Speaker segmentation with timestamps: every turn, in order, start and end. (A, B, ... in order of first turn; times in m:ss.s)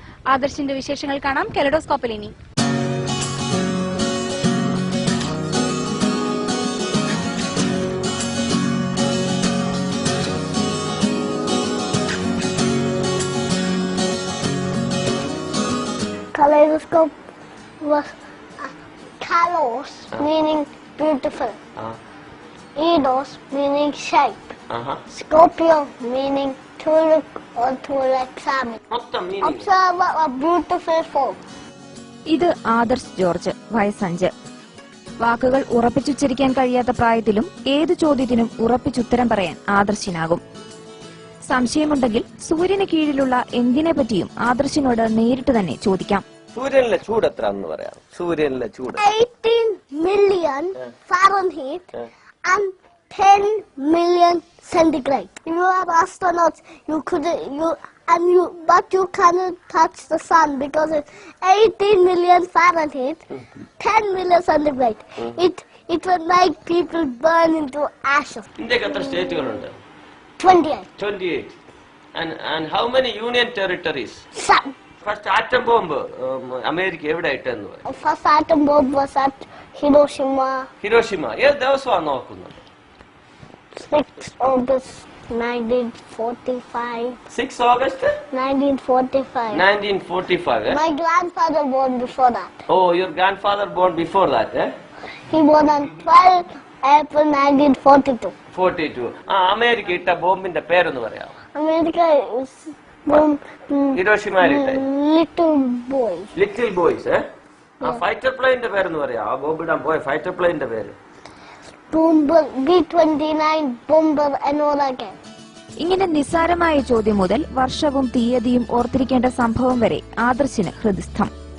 0:00.3-0:02.3 A
0:16.3-0:17.2 B
0:17.8-0:21.6 B
0:22.8-0:24.5 B
0:24.7-0:25.0 C
0:25.1-0:28.8 B
0:28.9-0:29.7 C
0:29.4-0:31.4 B
0:32.3-0:34.3 D
0:35.2-0:40.4 D
0:41.5-0:46.2 D
0:46.5-0:49.0 C
0:49.0-0:51.9 B
0:52.4-1:03.2 B
1:03.8-1:08.5 B
1:08.6-1:09.7 C
1:10.4-1:10.9 B
1:11.0-1:11.5 C
1:12.1-1:14.2 C
1:14.4-1:14.7 B
1:15.0-1:17.8 C
1:17.9-1:20.7 B
1:20.8-1:22.6 C
1:23.8-1:27.2 B
1:27.3-1:28.1 C
1:28.3-1:29.6 B
1:29.5-1:30.8 C
1:30.7-1:32.6 B
1:32.7-1:34.7 C
1:35.3-1:38.3 B
1:38.5-1:41.4 C
1:41.5-1:46.3 B
1:43.9-1:44.8 C
1:46.3-1:47.2 C
1:47.8-1:50.9 C
1:51.9-1:55.2 B
1:55.8-2:01.3 D